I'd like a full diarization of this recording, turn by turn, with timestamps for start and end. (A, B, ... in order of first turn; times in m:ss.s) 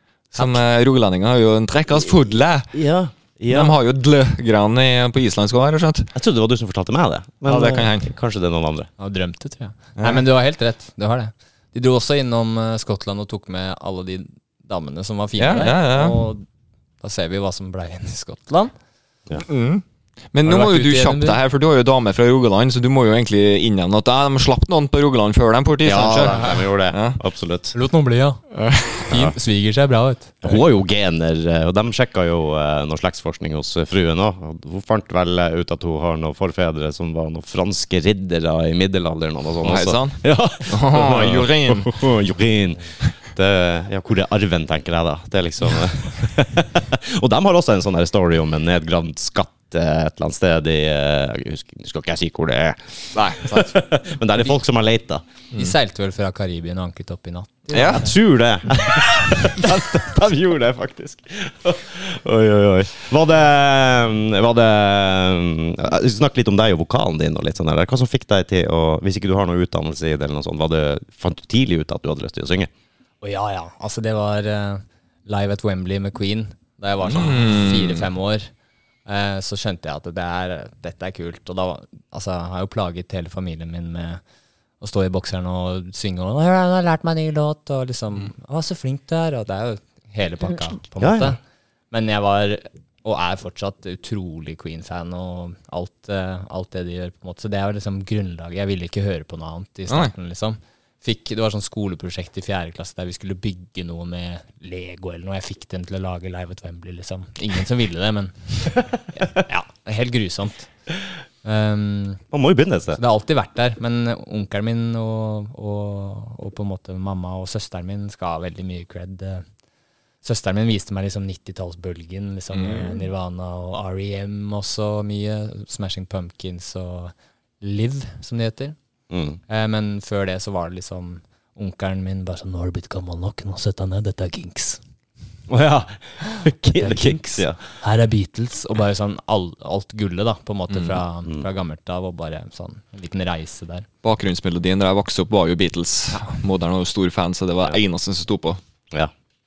0:00.3-0:00.6 A
0:00.3-0:02.8 B
0:02.7-0:03.7 C
0:03.5-0:06.1 B
0:06.1-0:08.9 C
0:07.4-0:08.1 B
0:09.0-0:16.4 A
0:10.0-0:10.2 B
0:15.4-0:16.2 B
0:17.0-0:18.7 A
0:19.4-0:27.2 B
0:20.4-0:21.4 A
0:25.8-0:27.7 C
0:26.3-0:26.6 A
0:27.7-0:28.4 A
0:28.5-0:29.1 B
0:29.0-0:30.6 A
0:30.4-0:55.2 C
0:39.6-0:42.0 B
0:53.1-0:53.7 B
0:55.5-0:58.1 A
0:57.7-0:58.0 B
0:57.8-1:12.7 C
1:13.2-1:18.5 A
1:17.0-1:18.0 B
1:19.0-1:24.2 A
1:24.8-1:31.4 A
1:31.0-1:31.4 C
1:31.9-1:50.7 A
1:51.4-1:52.2 A
1:52.3-1:53.0 C
1:53.0-1:59.4 A
2:00.2-2:08.8 A
2:02.5-2:03.0 B
2:09.1-2:09.4 C
2:09.5-2:14.8 A
2:15.5-2:17.6 C
2:16.8-2:23.9 A
2:20.7-2:21.0 B
2:24.0-2:28.6 B